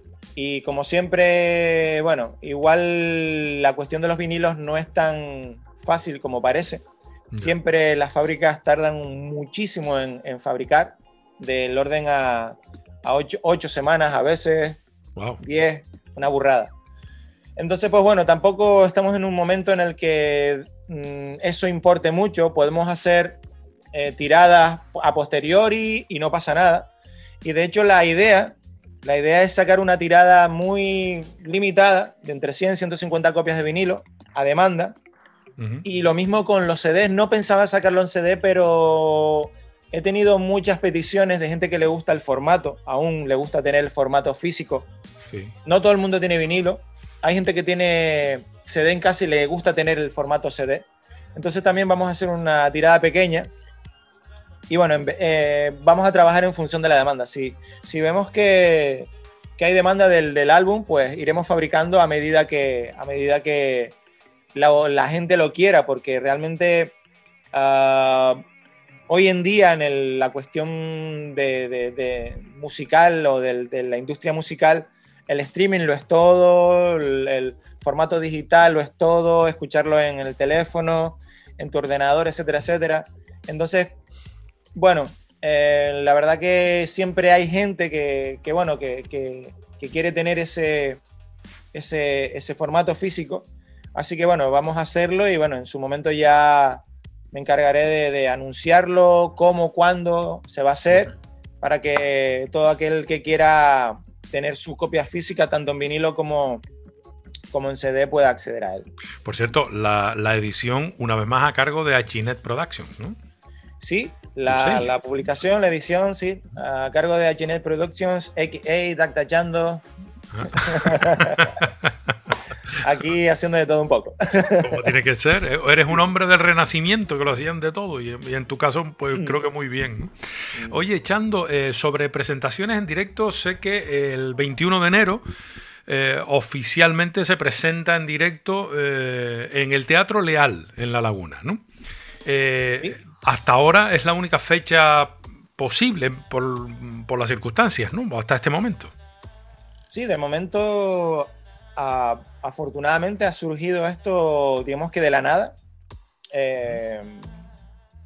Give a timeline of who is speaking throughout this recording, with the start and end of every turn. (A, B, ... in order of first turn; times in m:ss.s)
0:00.4-0:06.8 A
0:07.3-0:14.8 A
0:15.2-0:15.4 B
0:15.4-0:16.7 A
0:17.6-0:23.4 A
0:23.9-0:26.9 A
0:27.4-0:34.9 A
0:35.6-0:35.8 B
0:35.8-0:44.9 A
0:45.3-0:45.6 B
0:45.6-0:53.5 A
0:54.7-1:03.9 A
1:04.5-1:06.9 A
1:07.5-1:08.4 A
1:09.1-1:24.0 A
1:24.7-1:31.0 A
1:31.7-1:46.6 A
1:47.5-1:48.9 A
1:49.2-1:53.2 B
1:53.8-1:59.8 A
1:54.5-1:54.9 B
2:00.3-2:02.1 B
2:00.4-2:01.6 A
2:02.8-2:04.8 A
2:04.6-2:15.2 B
2:15.9-2:21.6 B
2:22.2-2:28.9 B
2:29.9-2:35.5 A
2:36.3-2:37.3 A